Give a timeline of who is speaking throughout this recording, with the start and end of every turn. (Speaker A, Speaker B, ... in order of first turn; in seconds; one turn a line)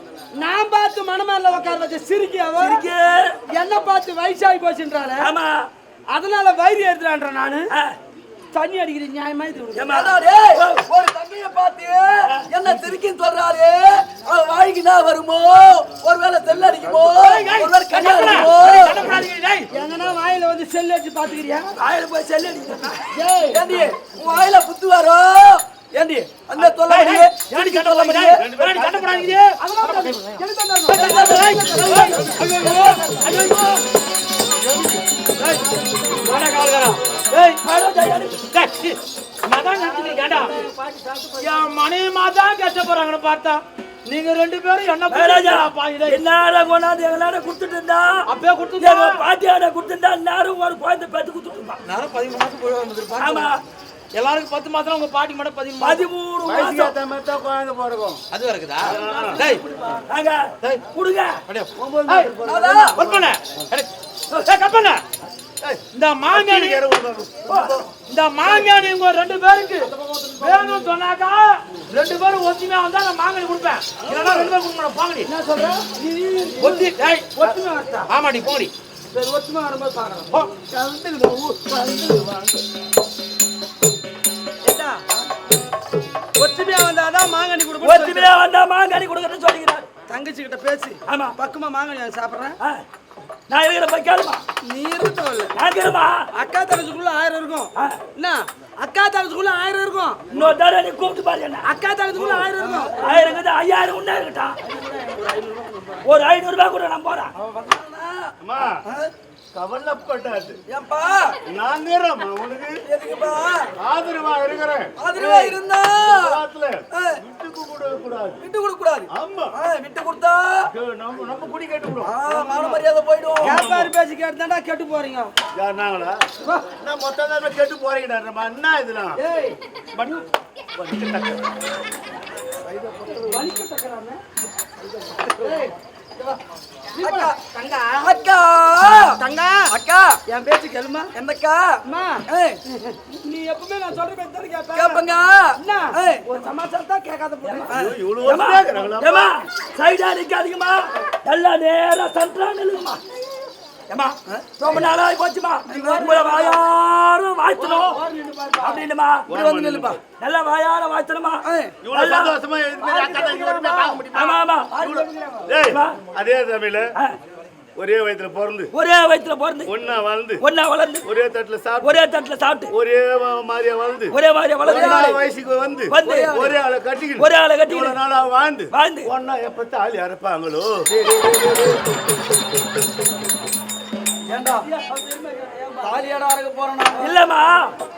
Speaker A: 0.3-2.8
Speaker B: 2.5-3.4
Speaker A: 3.5-5.3
Speaker B: 5.2-5.7
Speaker A: 6.1-7.7
Speaker B: 7.7-8.0
Speaker A: 8.5-9.8
Speaker B: 9.7-10.8
Speaker C: 9.9-19.2
Speaker D: 17.0-19.7
Speaker B: 17.9-18.7
Speaker A: 19.7-21.7
Speaker B: 21.8-23.1
Speaker A: 23.1-23.6
Speaker C: 23.5-28.4
Speaker D: 26.6-33.8
Speaker E: 28.4-29.4
Speaker A: 29.6-31.0
Speaker C: 31.0-33.1
Speaker B: 31.1-32.3
Speaker A: 31.5-31.9
Speaker A: 32.4-33.3
Speaker D: 34.6-35.6
Speaker D: 36.2-37.6
Speaker B: 37.6-38.4
Speaker D: 38.5-40.5
Speaker C: 40.0-41.3
Speaker A: 40.1-41.3
Speaker D: 41.4-46.2
Speaker B: 45.1-48.2
Speaker D: 48.2-49.2
Speaker B: 48.8-51.8
Speaker D: 51.8-53.5
Speaker B: 53.2-53.6
Speaker D: 54.1-56.1
Speaker B: 55.8-56.9
Speaker E: 56.4-58.2
Speaker D: 58.3-59.6
Speaker E: 58.8-59.4
Speaker C: 59.0-59.6
Speaker B: 60.1-61.4
Speaker D: 61.5-62.3
Speaker E: 61.8-63.6
Speaker C: 62.4-63.0
Speaker D: 62.9-65.0
Speaker E: 65.6-67.8
Speaker D: 65.9-66.8
Speaker B: 67.5-67.8
Speaker D: 68.0-75.3
Speaker C: 70.0-70.4
Speaker A: 75.3-78.1
Speaker D: 76.5-77.5
Speaker D: 78.1-78.7
Speaker A: 79.1-80.3
Speaker E: 80.7-82.6
Speaker A: 84.6-85.0
Speaker A: 86.3-88.2
Speaker B: 87.8-89.9
Speaker A: 90.1-92.6
Speaker B: 91.0-91.3
Speaker B: 93.5-94.4
Speaker A: 94.6-95.5
Speaker B: 95.5-96.3
Speaker A: 96.3-100.2
Speaker B: 97.8-98.0
Speaker B: 100.3-101.7
Speaker A: 101.6-103.0
Speaker D: 102.1-102.9
Speaker C: 102.6-102.9
Speaker B: 102.7-104.5
Speaker A: 104.7-106.0
Speaker B: 106.0-107.3
Speaker C: 107.5-108.3
Speaker E: 108.4-108.8
Speaker E: 109.5-110.6
Speaker C: 110.7-111.3
Speaker E: 111.4-112.8
Speaker C: 112.8-113.7
Speaker E: 113.8-114.9
Speaker C: 115.0-116.3
Speaker E: 116.0-118.4
Speaker C: 118.4-120.7
Speaker E: 119.1-119.5
Speaker E: 120.7-122.1
Speaker C: 122.0-123.7
Speaker E: 123.4-123.9
Speaker A: 123.5-125.3
Speaker E: 125.5-126.2
Speaker E: 126.7-129.2
Speaker A: 129.2-129.6
Speaker E: 130.7-131.5
Speaker A: 133.1-134.2
Speaker A: 135.1-136.4
Speaker A: 136.9-138.1
Speaker C: 136.9-137.4
Speaker C: 137.9-140.2
Speaker A: 139.1-139.7
Speaker A: 140.2-141.1
Speaker C: 141.1-142.6
Speaker A: 141.8-145.0
Speaker C: 144.7-146.4
Speaker A: 145.5-147.6
Speaker C: 147.6-147.9
Speaker E: 147.7-149.3
Speaker B: 148.2-153.0
Speaker B: 153.9-158.0
Speaker C: 154.3-154.8
Speaker A: 155.7-156.5
Speaker C: 155.7-156.5
Speaker A: 157.6-158.8
Speaker B: 158.6-159.3
Speaker E: 159.3-160.0
Speaker C: 159.3-160.0
Speaker B: 160.1-162.3
Speaker E: 161.8-166.9
Speaker A: 162.9-164.0
Speaker B: 164.1-164.8
Speaker A: 165.0-165.4
Speaker B: 165.6-166.0
Speaker E: 167.8-168.7
Speaker B: 168.7-169.7
Speaker E: 169.6-170.4
Speaker B: 170.4-171.1
Speaker E: 171.0-172.0
Speaker B: 171.8-172.7
Speaker E: 172.7-180.9
Speaker B: 174.1-175.2
Speaker C: 174.7-175.2
Speaker B: 175.9-176.5
Speaker C: 176.0-176.5
Speaker B: 177.2-178.0
Speaker B: 178.7-179.1
Speaker C: 184.3-184.7
Speaker A: 184.9-186.2
Speaker C: 185.4-187.1
Speaker B: 186.9-187.8